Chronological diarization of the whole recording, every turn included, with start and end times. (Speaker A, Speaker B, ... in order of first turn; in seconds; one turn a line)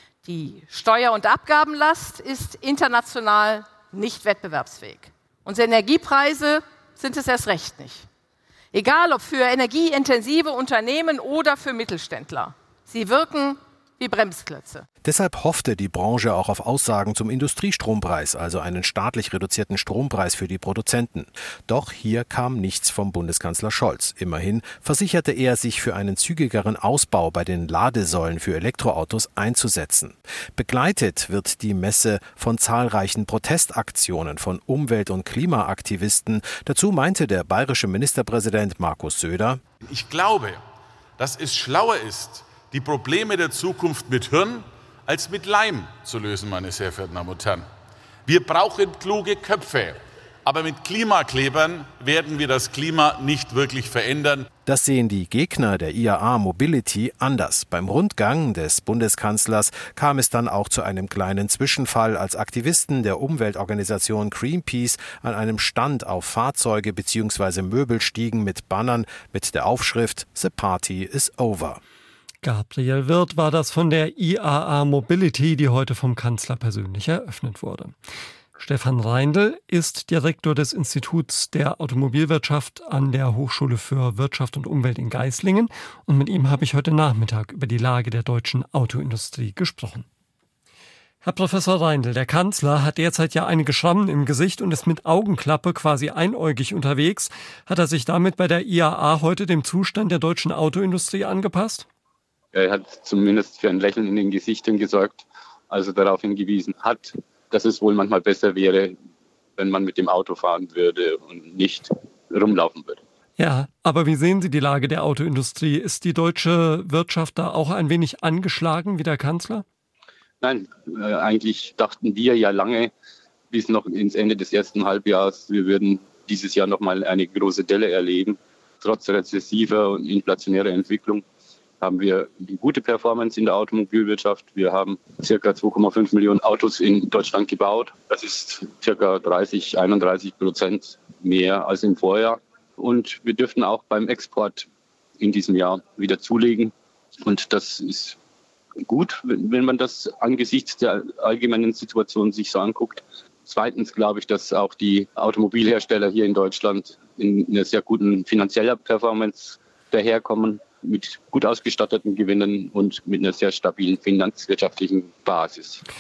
Speaker A: 0.2-8.1
Speaker A: 8.7-14.8
Speaker B: 15.0-39.6
Speaker C: 39.9-40.6
Speaker C: 41.2-47.6
Speaker C: 48.3-50.0
Speaker C: 50.5-54.4
Speaker B: 54.7-71.8
Speaker D: 72.4-78.0
Speaker D: 78.6-90.1
Speaker D: 91.2-101.9
Speaker E: 102.5-109.0
Speaker E: 109.6-113.0
Speaker D: 113.4-119.7
Speaker E: 120.4-122.9
Speaker E: 123.5-131.2
Speaker E: 131.8-144.7
Speaker E: 145.2-148.2
Speaker E: 148.9-165.8